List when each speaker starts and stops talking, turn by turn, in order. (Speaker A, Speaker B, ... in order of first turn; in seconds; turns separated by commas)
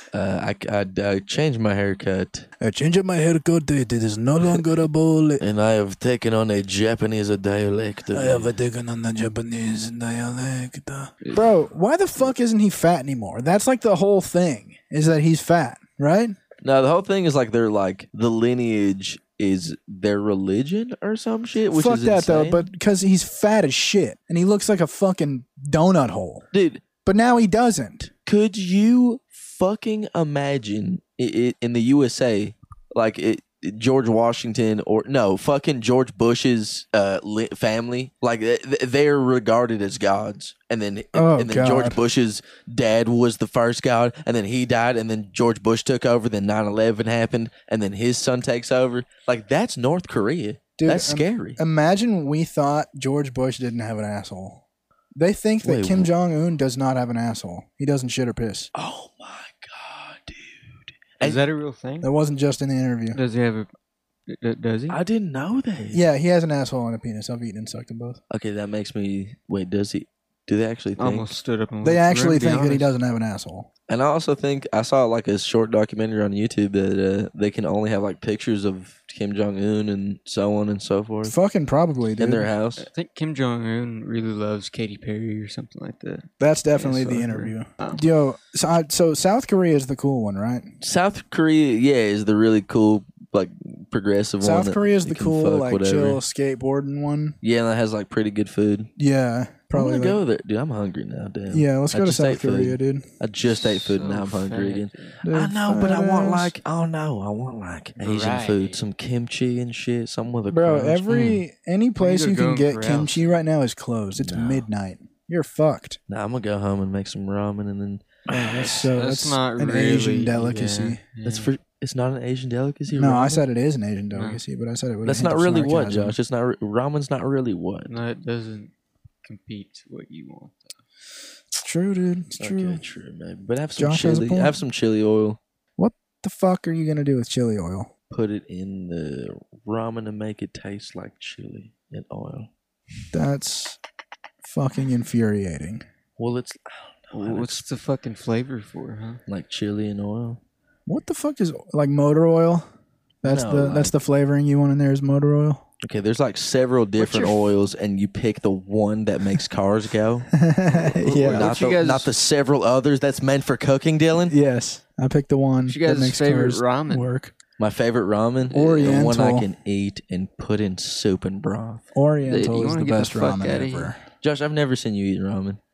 Speaker A: 0.1-2.5, Speaker B: 2.6-5.4, Speaker A: 5.4-8.5, Speaker B: 8.1-16.4, Speaker C: 11.2-11.5, Speaker A: 16.6-22.7, Speaker B: 21.7-26.5, Speaker A: 26.5-26.8, Speaker B: 27.0-28.1, Speaker A: 28.3-51.6, Speaker B: 41.1-42.0, Speaker B: 50.8-54.6, Speaker B: 55.1-58.7, Speaker A: 55.6-56.1, Speaker A: 58.7-61.4, Speaker C: 61.2-62.1, Speaker B: 62.0-63.2, Speaker C: 63.1-63.7, Speaker C: 64.3-65.0, Speaker A: 64.9-66.0, Speaker B: 65.9-68.2, Speaker A: 68.3-71.3, Speaker C: 71.0-72.9, Speaker B: 71.8-73.7, Speaker A: 73.9-81.3, Speaker B: 81.2-82.5, Speaker A: 82.2-82.9, Speaker C: 82.8-88.0, Speaker B: 86.4-90.7, Speaker A: 90.8-96.2, Speaker B: 94.4-97.4, Speaker A: 97.4-98.9, Speaker B: 99.0-100.2, Speaker A: 99.7-111.0, Speaker B: 101.5-103.0, Speaker C: 103.7-105.2, Speaker B: 105.2-106.6, Speaker C: 108.0-108.8, Speaker B: 110.5-116.0, Speaker C: 111.1-111.4, Speaker C: 112.0-113.2, Speaker A: 114.2-114.7, Speaker A: 116.1-118.7, Speaker B: 118.3-121.0, Speaker C: 118.6-121.5, Speaker A: 121.2-123.4, Speaker B: 122.9-126.2, Speaker C: 124.1-124.4, Speaker A: 125.0-127.9, Speaker C: 127.9-128.7, Speaker C: 129.2-130.8, Speaker B: 131.6-132.8, Speaker A: 132.4-135.4, Speaker B: 133.8-134.6, Speaker B: 135.8-137.9, Speaker A: 138.1-142.5, Speaker B: 143.1-143.8, Speaker B: 144.4-145.8, Speaker A: 146.2-147.7, Speaker C: 147.1-149.2, Speaker A: 149.3-150.4, Speaker B: 150.9-152.7, Speaker B: 153.2-155.6, Speaker A: 153.2-153.9, Speaker A: 155.8-160.3, Speaker B: 157.0-157.3, Speaker B: 160.3-161.5, Speaker A: 160.9-164.3, Speaker C: 161.2-162.1, Speaker B: 164.3-167.3, Speaker C: 165.7-167.1, Speaker A: 167.6-171.9, Speaker B: 168.5-169.5, Speaker B: 171.9-174.0, Speaker C: 172.2-173.9, Speaker A: 174.2-175.6